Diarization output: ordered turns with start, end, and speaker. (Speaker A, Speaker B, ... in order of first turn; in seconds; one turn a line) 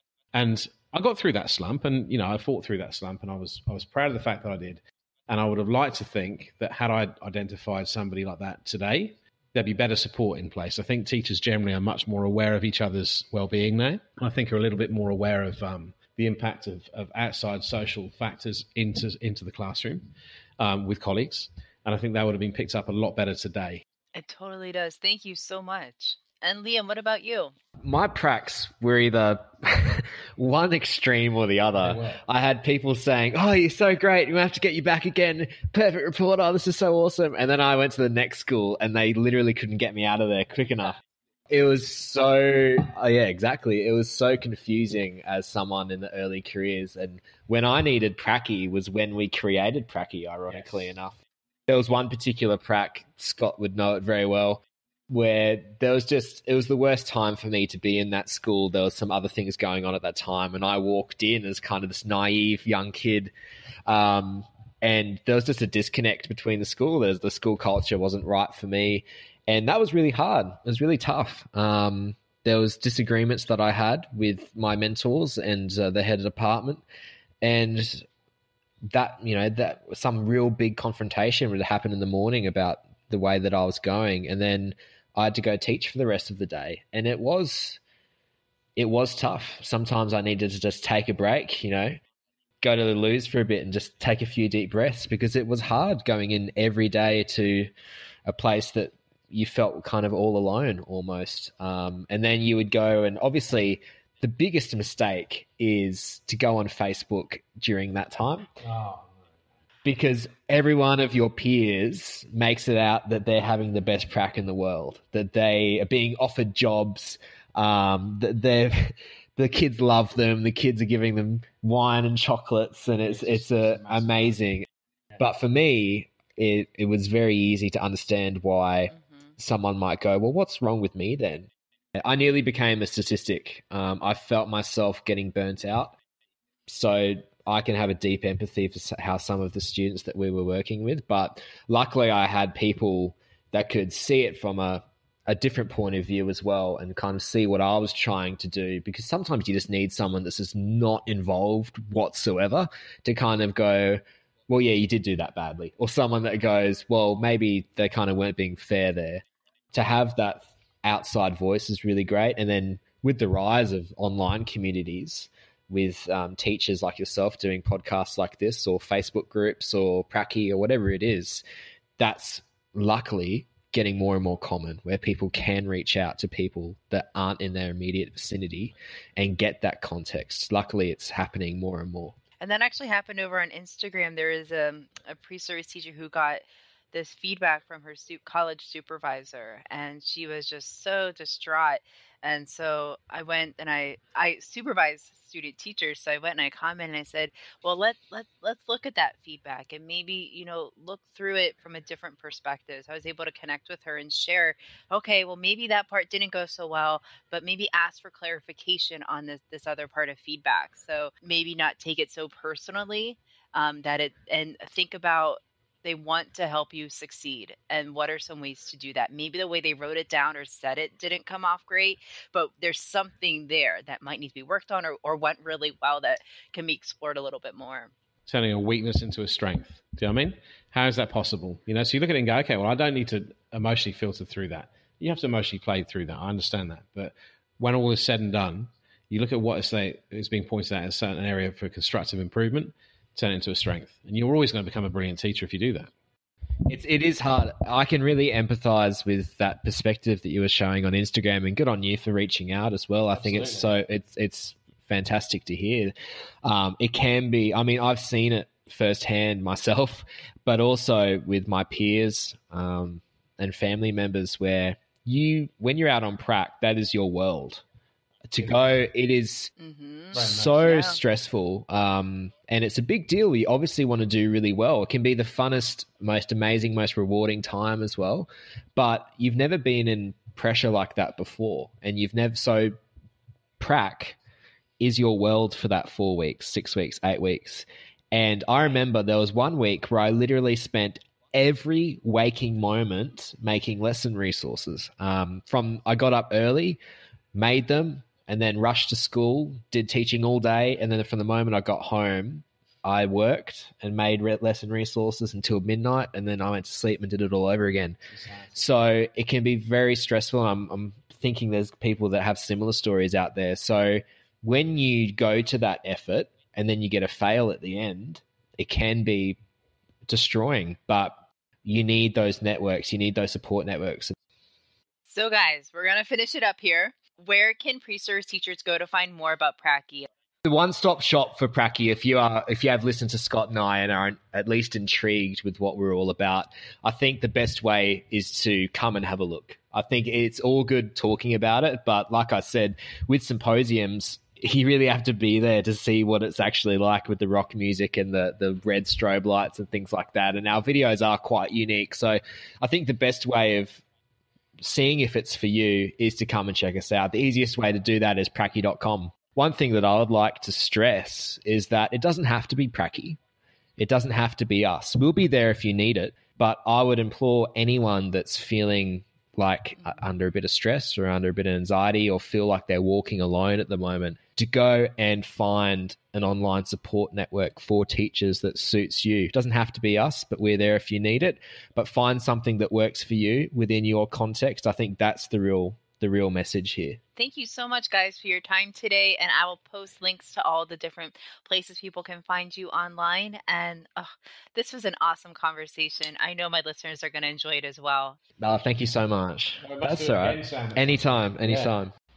Speaker A: 0.3-23.8
Speaker B: 24.1-27.5
Speaker C: 27.8-63.3
Speaker A: 31.8-32.2
Speaker C: 63.9-76.8
Speaker C: 77.4-78.1
Speaker C: 78.8-87.8
Speaker C: 88.8-92.0
Speaker C: 92.6-97.7
Speaker C: 98.2-108.5
Speaker A: 108.6-109.2
Speaker C: 109.8-124.7
Speaker A: 123.1-124.3
Speaker C: 125.2-135.9
Speaker C: 136.7-171.4
Speaker C: 172.0-182.2
Speaker B: 182.4-227.9
Speaker A: 228.3-245.9
Speaker C: 246.7-255.9
Speaker A: 253.1-253.8
Speaker C: 256.4-267.6
Speaker C: 268.3-269.5
Speaker A: 268.4-268.8
Speaker B: 269.6-271.0
Speaker C: 270.1-282.7
Speaker A: 270.1-270.6
Speaker C: 283.6-284.2
Speaker C: 284.8-296.8
Speaker C: 297.3-308.0
Speaker A: 308.1-308.6
Speaker C: 308.5-319.4
Speaker C: 320.1-324.1
Speaker B: 325.1-330.1
Speaker C: 330.4-353.8
Speaker C: 354.6-363.2
Speaker C: 363.8-387.0
Speaker B: 387.1-398.2
Speaker C: 398.4-401.9
Speaker A: 399.6-401.7